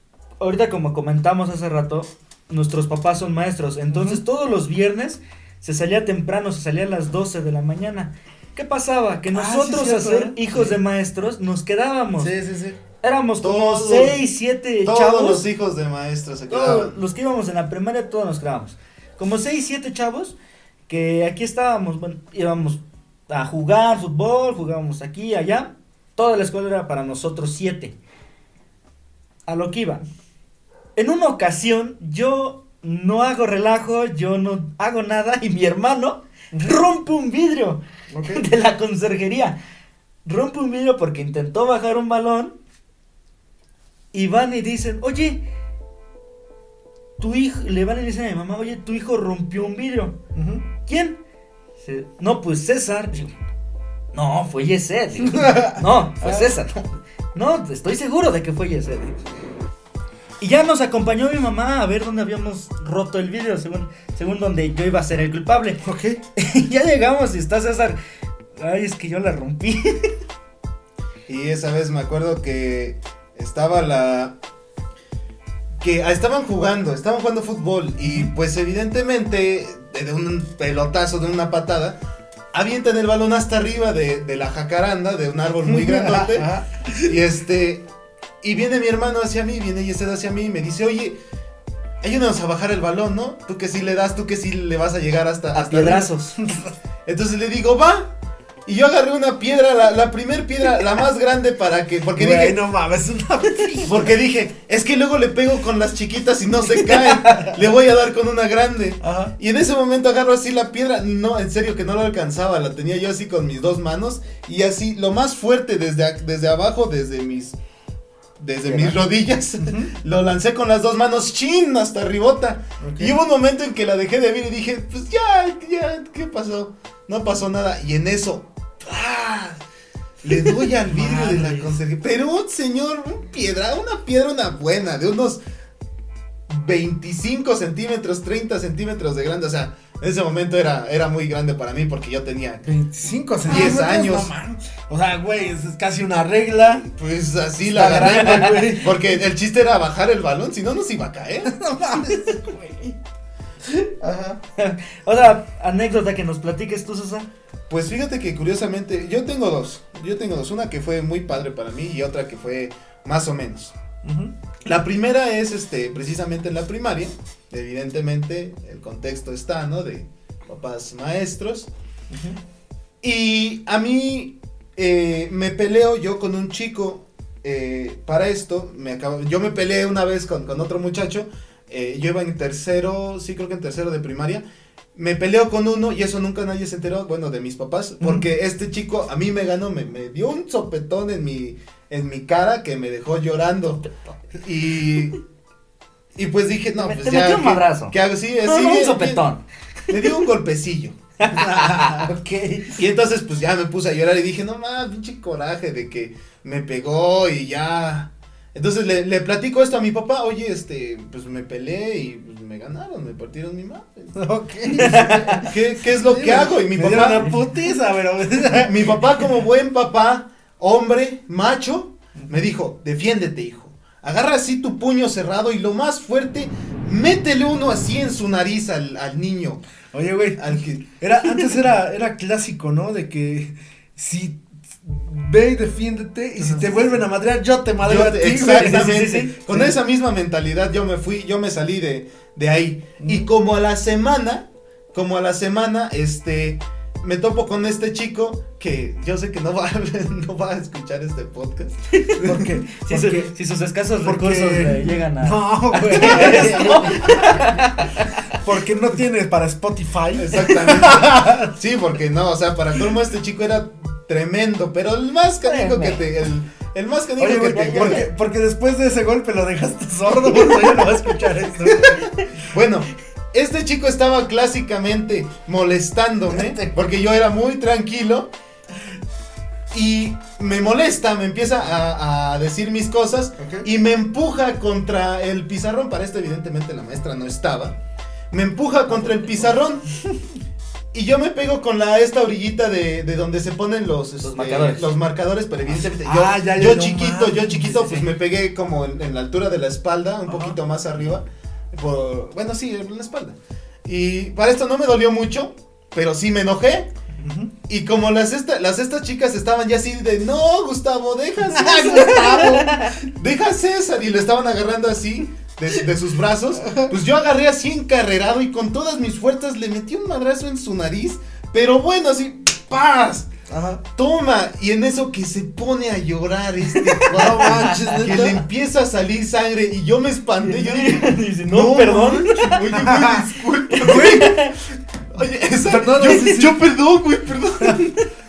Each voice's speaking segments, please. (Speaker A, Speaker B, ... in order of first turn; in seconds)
Speaker A: 0.4-12.3, 13.0-15.5, 16.5-20.4, 20.9-27.9, 29.5-30.0, 30.9-39.6, 40.2-42.5, 44.1-45.4, 47.2-50.2, 50.8-51.2, 51.8-53.3, 54.1-59.2, 60.4-65.8, 66.3-68.0, 68.5-70.1, 95.5-96.4, 107.0-107.5, 130.8-131.8, 148.0-148.7, 154.6-157.3, 193.8-194.1, 196.8-200.0, 201.2-202.8, 214.8-215.4, 238.4-239.3, 251.9-252.2, 252.8-258.2, 265.4-266.0, 267.5-268.1, 270.1-272.2, 294.2-294.9, 297.6-298.1, 326.8-327.7, 330.4-332.6, 333.7-334.5
Speaker B: 3.9-4.2, 9.3-10.8, 12.2-12.8, 36.5-36.8, 38.1-38.4, 50.3-50.6, 55.2-56.5, 65.8-66.2, 78.0-78.3, 85.6-87.2, 96.4-96.7, 102.1-104.1, 109.0-109.3, 118.6-119.1, 119.6-119.9, 122.8-123.2, 142.6-146.9, 147.6-148.9, 151.4-152.9, 164.0-164.3, 172.1-172.4, 201.8-202.2, 214.1-219.2, 229.9-239.7, 243.0-243.3, 252.2-253.3, 254.0-257.4, 258.4-261.5, 267.2-272.1, 276.3-276.8, 283.4-283.7, 295.7-297.8, 300.3-300.6, 307.2-307.5, 311.5-312.7, 316.5-316.9, 323.5-323.8, 327.1-328.4, 332.6-333.3, 333.8-334.4, 335.6-336.7
Speaker C: 13.4-14.2, 14.8-17.0, 71.3-74.3, 75.8-82.0, 82.5-86.5, 87.0-87.8, 88.4-91.2, 92.0-96.1, 97.0-98.1, 98.7-102.6, 103.8-117.5, 118.4-129.6, 130.2-135.4, 136.5-142.6, 143.4-144.3, 146.9-151.5, 154.0-154.4, 157.7-163.7, 164.6-171.7, 173.0-184.4, 184.9-195.2, 196.2-199.2, 199.9-202.0, 202.7-214.1, 214.8-217.3, 218.5-229.6, 230.4-230.8, 236.4-236.8, 237.8-251.7, 255.9-257.3, 260.1-268.1, 272.5-278.3, 279.7-287.8, 288.3-289.9, 290.9-306.9, 307.7-323.3, 323.9-334.5, 335.1-338.0